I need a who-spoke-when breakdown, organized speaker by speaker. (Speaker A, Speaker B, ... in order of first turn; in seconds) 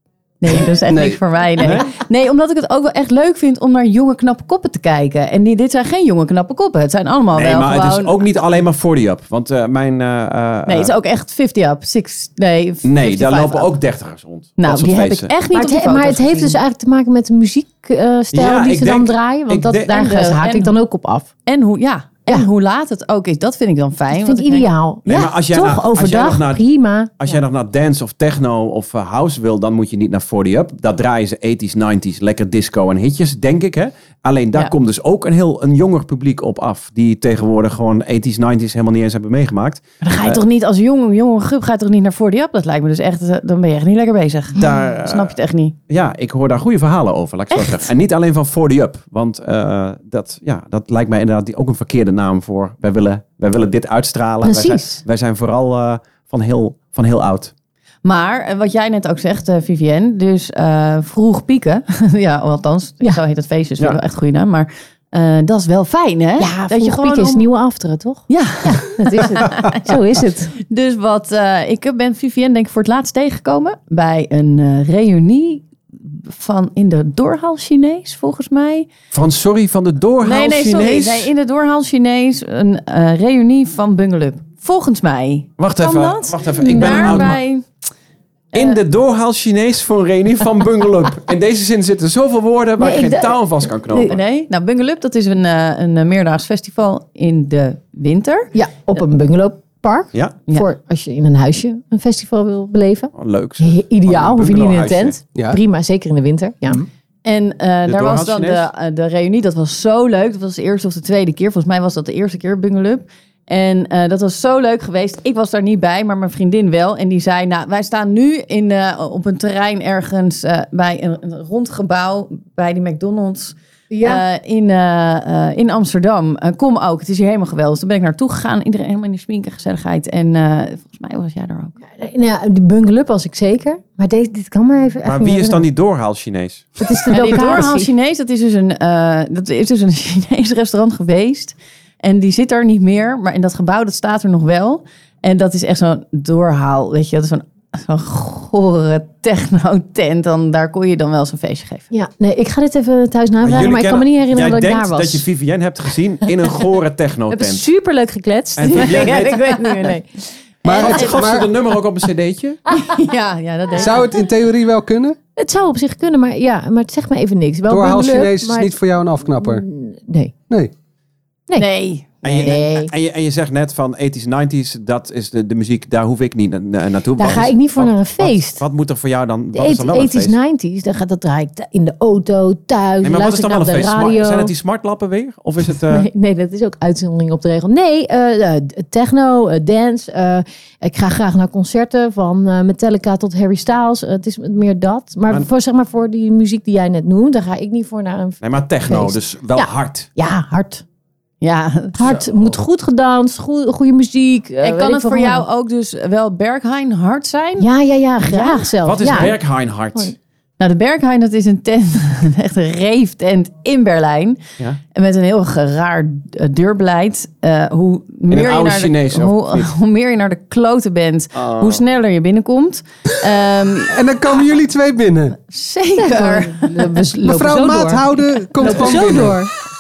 Speaker A: 0.4-8.3, 10.7-13.7, 14.6-16.6, 19.9-20.7, 21.5-24.7, 40.0-45.8, 58.0-67.5, 68.3-70.0, 70.6-78.9, 80.2-87.7, 93.9-98.5, 107.2-131.8, 137.1-151.9, 158.6-160.0, 160.7-161.1, 162.7-164.1, 171.6-172.8, 201.4-202.2, 204.6-207.7, 208.2-209.2, 210.6-224.0, 225.5-227.1
Speaker B: 0.9-1.2, 160.6-161.5, 163.8-165.2, 167.7-169.7, 223.9-225.4, 227.2-229.4
Speaker C: 1.6-1.9, 7.3-10.9, 12.8-15.3, 18.3-20.0, 25.1-26.6, 27.2-40.4, 44.6-45.4, 45.9-57.5, 79.1-81.3, 85.6-87.4, 88.5-94.2, 103.2-105.2, 107.9-108.7, 135.0-136.8, 153.4-157.6, 158.6-159.4, 160.7-162.6, 172.2-180.4, 183.0-186.1, 198.4-200.1, 202.0-202.6, 208.8-210.1, 218.3-219.7, 221.3-221.8
Speaker D: 15.5-21.3, 24.1-27.3, 44.6-44.9, 54.4-55.0, 66.4-70.5, 86.6-87.3, 92.8-93.4, 98.5-106.9, 123.9-124.2, 131.9-135.6, 136.8-137.9, 151.9-155.2, 157.3-160.1, 162.7-163.0, 165.4-168.7, 169.4-170.3, 172.3-172.9, 177.2-178.6, 179.5-184.5, 185.9-200.8, 201.9-205.4, 207.6-209.4, 226.0-229.5